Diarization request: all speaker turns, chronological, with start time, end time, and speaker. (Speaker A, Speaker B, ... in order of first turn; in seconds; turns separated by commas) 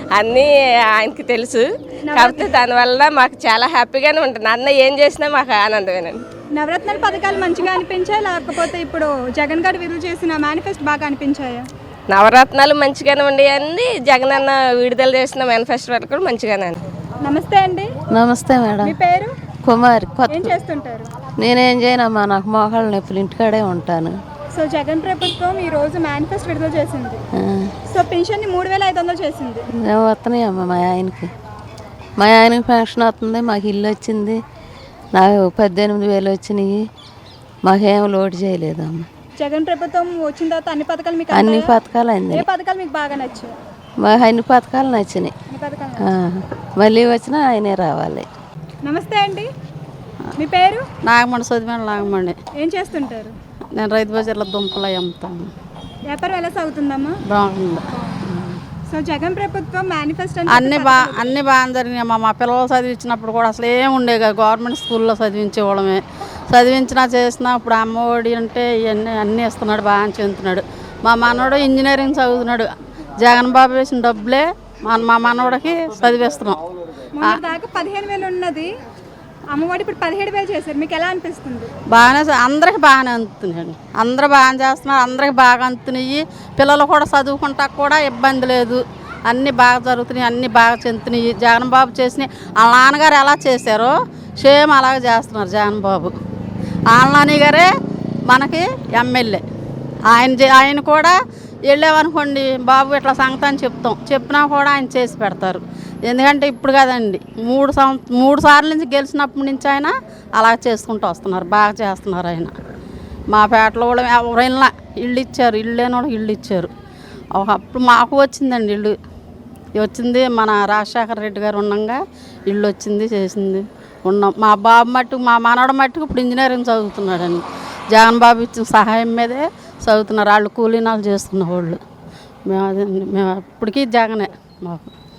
Speaker A: 0.1-6.2, Speaker B: 2.1-2.5, Speaker B: 6.5-11.7, Speaker A: 12.1-16.8, Speaker B: 17.2-17.9, Speaker C: 18.1-18.9, Speaker B: 18.8-19.3, Speaker C: 19.7-20.4, Speaker B: 20.3-21.1, Speaker C: 21.4-24.1, Speaker B: 24.5-27.2, Speaker C: 27.4-27.7, Speaker B: 27.9-29.6, Speaker C: 29.8-31.3, Speaker C: 32.2-34.4, Speaker C: 35.1-36.9, Speaker C: 37.7-39.1, Speaker B: 39.4-43.5, Speaker C: 41.4-42.4, Speaker C: 44.0-45.3, Speaker B: 45.5-46.1, Speaker C: 46.1-48.3, Speaker B: 48.8-49.5, Speaker B: 50.4-50.9, Speaker D: 51.0-52.4, Speaker B: 52.6-53.3, Speaker D: 53.8-55.5, Speaker B: 56.1-57.2, Speaker D: 57.3-58.6, Speaker B: 58.9-61.4, Speaker D: 60.5-72.7, Speaker D: 73.2-76.6, Speaker B: 77.2-78.7, Speaker B: 79.5-81.7, Speaker D: 81.9-96.1, Speaker D: 96.9-97.7, Speaker D: 98.3-99.4, Speaker D: 100.1-112.5, Speaker D: 113.3-116.7, Speaker D: 117.3-118.9, Speaker D: 119.8-131.8, Speaker D: 132.5-134.9